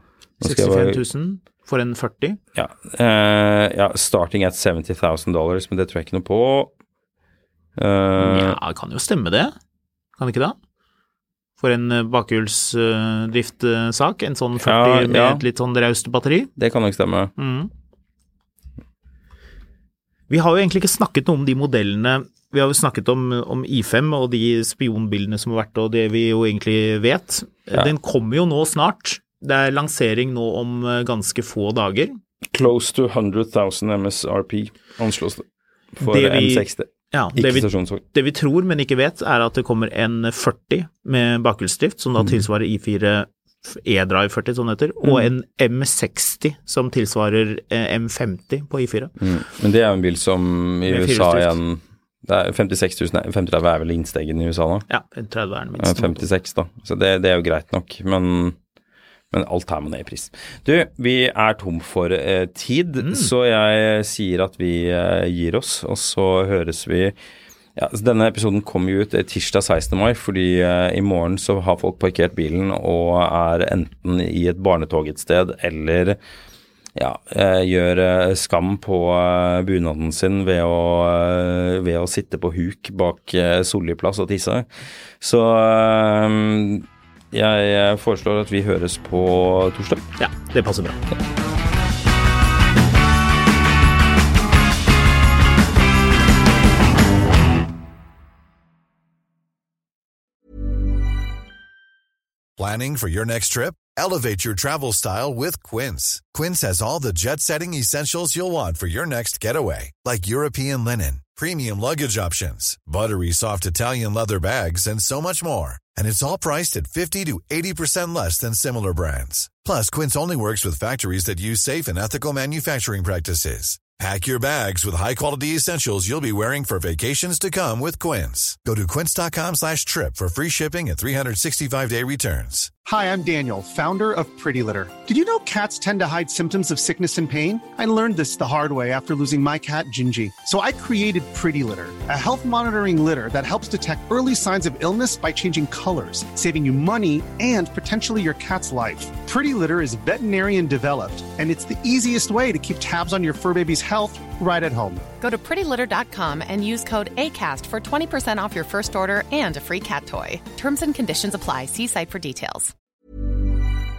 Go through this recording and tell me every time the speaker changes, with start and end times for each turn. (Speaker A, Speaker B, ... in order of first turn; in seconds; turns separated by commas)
Speaker A: 0.4-1.0, Speaker B: 0.4-2.4, Speaker A: 2.5-6.7, Speaker A: 7.8-8.6, Speaker B: 8.2-9.5, Speaker B: 10.2-10.6, Speaker B: 11.6-16.5, Speaker A: 14.6-15.4, Speaker A: 16.6-17.3, Speaker B: 17.4-17.7, Speaker B: 20.3-32.2, Speaker A: 32.5-38.0, Speaker B: 36.0-49.1, Speaker A: 49.2-54.9, Speaker B: 50.9-51.6, Speaker B: 54.9-56.3, Speaker A: 55.8-58.5, Speaker A: 59.3-67.2, Speaker B: 63.0-63.3, Speaker A: 67.8-76.2, Speaker A: 76.9-84.7, Speaker A: 85.2-90.1, Speaker B: 90.2-91.0, Speaker C: 102.6-132.8, Speaker D: 132.8-155.0, Speaker E: 155.2-162.7